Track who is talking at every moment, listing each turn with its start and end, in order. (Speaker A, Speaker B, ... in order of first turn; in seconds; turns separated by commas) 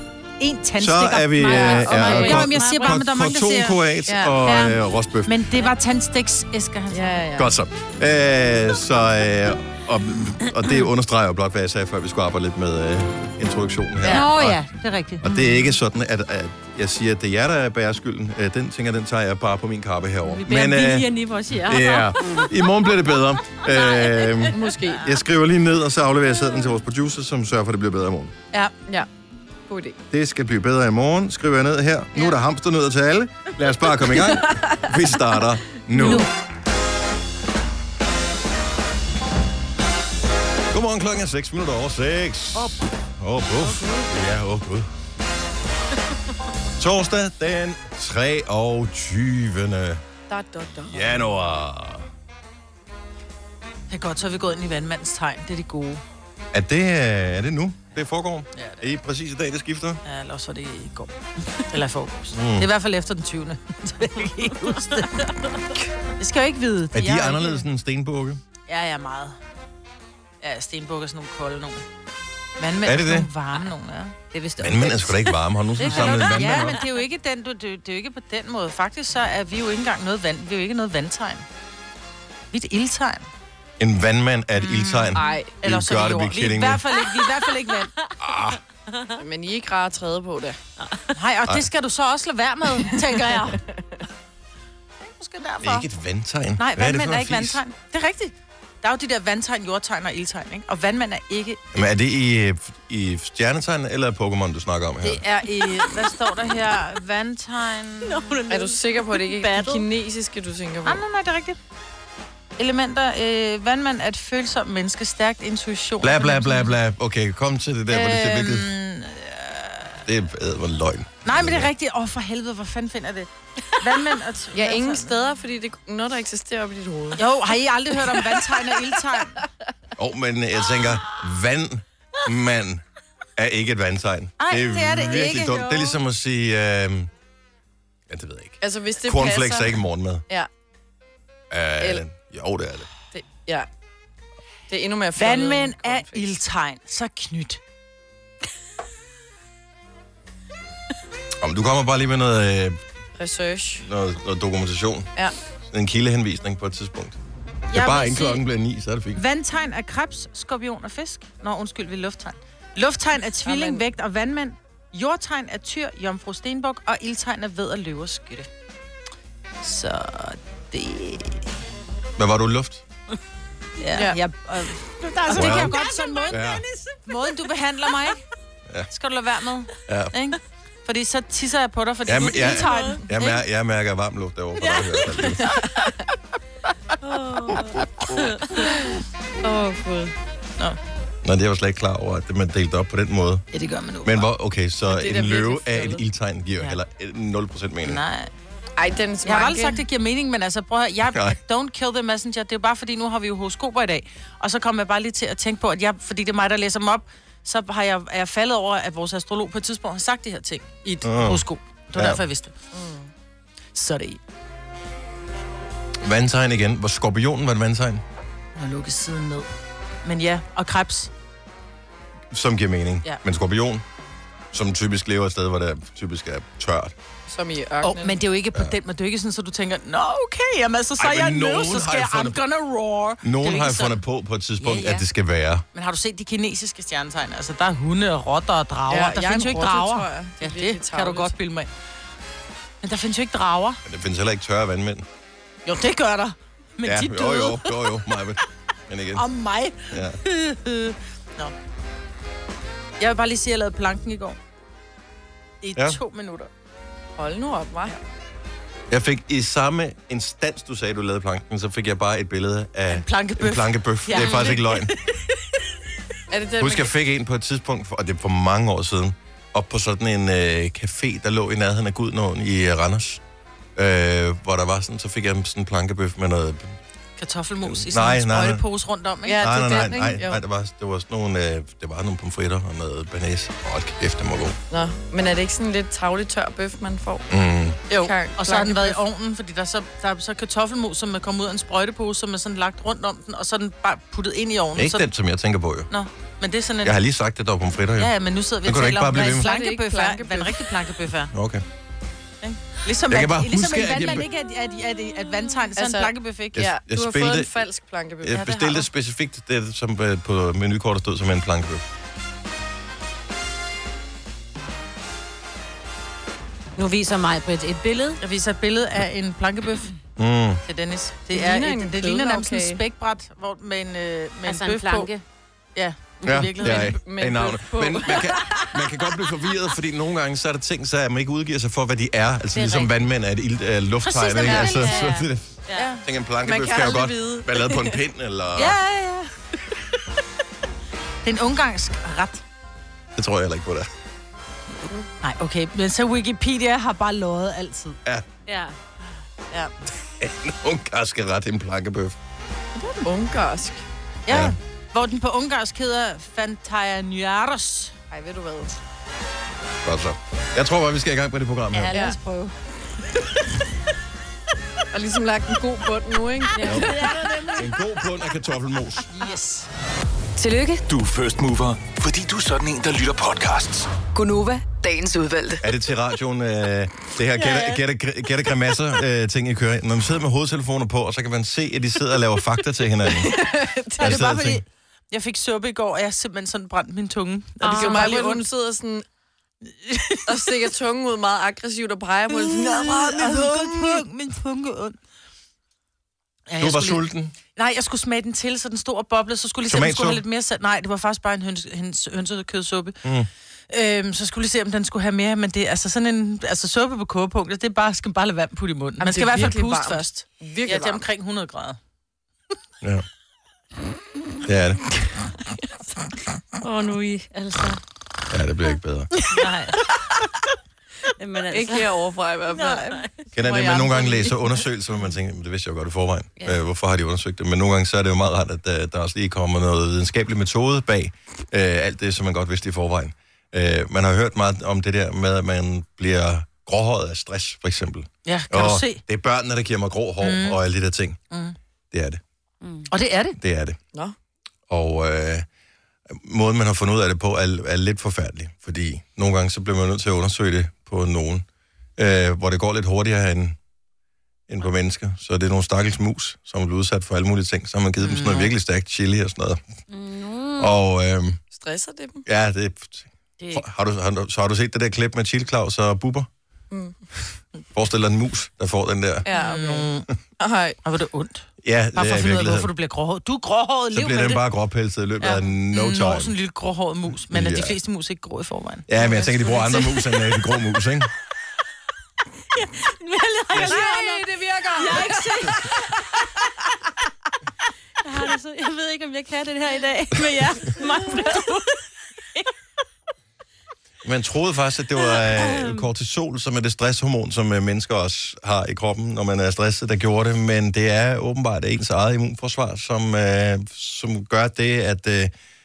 Speaker A: 0.4-4.7, Speaker B: 0.8-5.3, Speaker C: 1.4-3.0, Speaker D: 4.1-4.4, Speaker C: 4.5-4.8, Speaker A: 5.3-7.3, Speaker D: 6.9-7.5, Speaker B: 7.4-14.6, Speaker A: 14.0-15.6, Speaker B: 15.2-21.1, Speaker C: 20.3-22.5, Speaker B: 21.7-28.3, Speaker C: 23.7-24.3, Speaker D: 24.5-25.1, Speaker D: 29.7-30.0, Speaker B: 30.1-36.3, Speaker D: 34.3-34.8, Speaker B: 40.7-44.9, Speaker D: 43.6-44.0, Speaker B: 46.8-50.0, Speaker D: 50.3-51.2, Speaker B: 50.9-52.1, Speaker A: 53.9-56.0, Speaker B: 56.5-60.0, Speaker A: 58.5-58.9, Speaker A: 60.0-65.3, Speaker B: 62.3-62.7, Speaker C: 65.0-65.3, Speaker A: 66.2-67.7, Speaker B: 66.9-68.4, Speaker A: 68.7-69.4, Speaker A: 70.4-71.8, Speaker A: 72.6-74.2, Speaker B: 72.8-73.3, Speaker C: 74.3-76.7, Speaker B: 74.6-76.8, Speaker A: 75.8-81.4, Speaker A: 82.5-83.3, Speaker B: 83.8-86.8, Speaker A: 84.6-87.9, Speaker D: 85.2-85.5, Speaker B: 88.2-88.6, Speaker D: 89.2-90.6, Speaker C: 90.8-91.0, Speaker A: 91.1-93.6, Speaker A: 95.0-95.9, Speaker B: 95.6-97.6, Speaker A: 96.6-101.6, Speaker B: 101.7-105.2, Speaker A: 105.0-108.2, Speaker C: 108.0-109.9, Speaker D: 108.5-111.0, Speaker A: 110.8-111.6, Speaker A: 112.6-116.7, Speaker B: 116.0-118.7, Speaker A: 117.9-120.0, Speaker B: 120.1-121.7, Speaker A: 121.2-125.2, Speaker D: 124.5-127.3, Speaker A: 127.2-129.4, Speaker D: 128.1-128.6, Speaker B: 130.0-132.8, Speaker B: 133.4-137.1, Speaker A: 134.4-136.0, Speaker B: 138.1-140.2, Speaker D: 138.6-140.5, Speaker B: 141.5-142.9, Speaker D: 143.1-143.7, Speaker D: 144.7-146.3, Speaker A: 145.2-147.6, Speaker B: 151.4-152.8, Speaker D: 153.2-153.9, Speaker B: 153.8-155.1, Speaker B: 155.7-157.2, Speaker A: 157.7-158.4, Speaker B: 157.7-159.2, Speaker A: 159.2-168.5, Speaker D: 163.4-163.8, Speaker A: 169.6-171.5, Speaker B: 172.2-172.8, Speaker A: 173.8-176.4, Speaker C: 175.3-177.0, Speaker B: 175.3-175.7, Speaker B: 176.3-176.6, Speaker A: 177.1-178.2, Speaker A: 178.9-183.4, Speaker B: 179.9-180.1, Speaker B: 182.1-185.5, Speaker C: 182.4-183.0, Speaker C: 187.0-188.8, Speaker D: 189.4-190.1, Speaker B: 191.2-193.4, Speaker A: 193.5-194.3, Speaker B: 194.1-198.0, Speaker D: 194.9-196.0, Speaker A: 197.9-198.3, Speaker D: 198.8-199.8, Speaker A: 199.2-212.6, Speaker B: 211.0-211.4, Speaker B: 211.9-212.2, Speaker D: 212.7-213.1, Speaker A: 213.8-214.2, Speaker B: 216.0-218.0, Speaker A: 218.6-219.5, Speaker A: 220.0-221.1, Speaker B: 222.3-223.8, Speaker B: 224.5-226.9, Speaker D: 227.3-228.2, Speaker A: 227.8-234.0, Speaker B: 231.0-232.4, Speaker B: 233.2-235.7, Speaker A: 234.6-235.1, Speaker A: 235.7-241.7, Speaker D: 238.9-241.3, Speaker A: 242.8-243.8, Speaker B: 243.8-245.1, Speaker A: 245.7-247.8, Speaker B: 246.9-249.2, Speaker A: 249.1-251.5, Speaker B: 249.9-250.2, Speaker A: 253.0-254.4, Speaker A: 255.6-256.5, Speaker D: 257.2-258.0, Speaker B: 258.9-264.9, Speaker A: 262.9-264.9, Speaker D: 266.3-266.9, Speaker B: 266.6-273.2, Speaker B: 273.8-276.8, Speaker A: 277.2-279.5, Speaker B: 277.6-278.6, Speaker D: 279.3-280.4, Speaker B: 279.4-284.6, Speaker D: 284.7-287.3, Speaker B: 287.3-287.8, Speaker D: 287.9-289.0, Speaker A: 287.9-295.1, Speaker B: 294.8-295.9, Speaker A: 295.9-297.0, Speaker B: 296.8-298.1, Speaker A: 298.0-301.3, Speaker B: 298.6-299.5, Speaker D: 299.2-300.6, Speaker B: 301.3-301.6, Speaker A: 302.4-306.6, Speaker B: 303.1-304.2, Speaker D: 305.8-308.7, Speaker B: 306.6-307.6, Speaker B: 308.2-311.9, Speaker A: 308.4-308.8, Speaker C: 316.8-318.2, Speaker A: 318.2-319.9, Speaker B: 320.2-320.6, Speaker A: 320.7-325.1, Speaker D: 321.3-322.8, Speaker C: 324.4-325.2, Speaker A: 325.8-327.0, Speaker B: 326.3-338.8, Speaker D: 326.6-328.9, Speaker C: 332.6-332.9, Speaker A: 334.0-335.0, Speaker C: 334.4-335.9, Speaker A: 335.7-336.0, Speaker D: 336.4-337.8, Speaker A: 338.6-339.3, Speaker A: 341.2-342.4, Speaker B: 343.2-343.9, Speaker A: 345.2-348.0, Speaker C: 348.5-348.8, Speaker B: 350.2-352.2, Speaker D: 352.9-353.8, Speaker A: 354.3-357.9, Speaker B: 354.3-354.6, Speaker D: 358.1-358.8, Speaker B: 359.8-361.9, Speaker A: 361.7-362.5, Speaker D: 361.9-362.2, Speaker D: 364.9-367.1, Speaker B: 366.6-366.9, Speaker A: 366.6-367.5, Speaker B: 367.5-369.1, Speaker A: 369.1-369.7, Speaker E: 370.4-370.8, Speaker F: 370.9-373.9, Speaker E: 374.1-375.6, Speaker B: 375.6-383.3, Speaker D: 383.1-384.2, Speaker A: 384.0-388.4, Speaker B: 384.0-384.6, Speaker C: 387.6-388.2, Speaker D: 387.6-389.0, Speaker A: 389.9-390.5, Speaker D: 390.3-393.3, Speaker A: 392.4-395.0, Speaker A: 396.5-397.0, Speaker B: 396.6-397.3, Speaker A: 397.6-403.0, Speaker B: 399.7-400.2, Speaker A: 403.7-411.8, Speaker D: 409.0-411.0, Speaker B: 414.5-414.9, Speaker C: 416.6-417.8, Speaker B: 418.3-419.1, Speaker C: 419.3-419.8, Speaker C: 421.2-422.0, Speaker D: 421.5-424.5, Speaker C: 422.5-423.1, Speaker B: 423.4-441.2, Speaker A: 438.2-439.0, Speaker A: 440.2-440.6, Speaker A: 441.3-441.6, Speaker B: 441.9-442.2, Speaker C: 442.6-442.9, Speaker A: 442.9-443.4, Speaker B: 443.4-443.8, Speaker B: 444.7-445.5, Speaker B: 446.1-451.4, Speaker B: 452.0-453.6, Speaker B: 454.5-459.6, Speaker A: 458.0-458.5, Speaker C: 459.9-460.7, Speaker B: 460.6-461.4, Speaker D: 461.5-462.2, Speaker B: 462.3-466.3, Speaker D: 466.7-467.0, Speaker B: 467.7-469.3, Speaker D: 469.2-470.8, Speaker A: 469.3-470.1, Speaker A: 470.9-474.4, Speaker B: 471.6-472.7, Speaker B: 473.9-476.3, Speaker A: 475.2-478.9, Speaker B: 477.3-477.8, Speaker B: 478.9-481.1, Speaker C: 482.6-485.9, Speaker D: 483.6-485.4, Speaker C: 488.0-491.8, Speaker B: 494.0-505.3, Speaker C: 495.1-495.9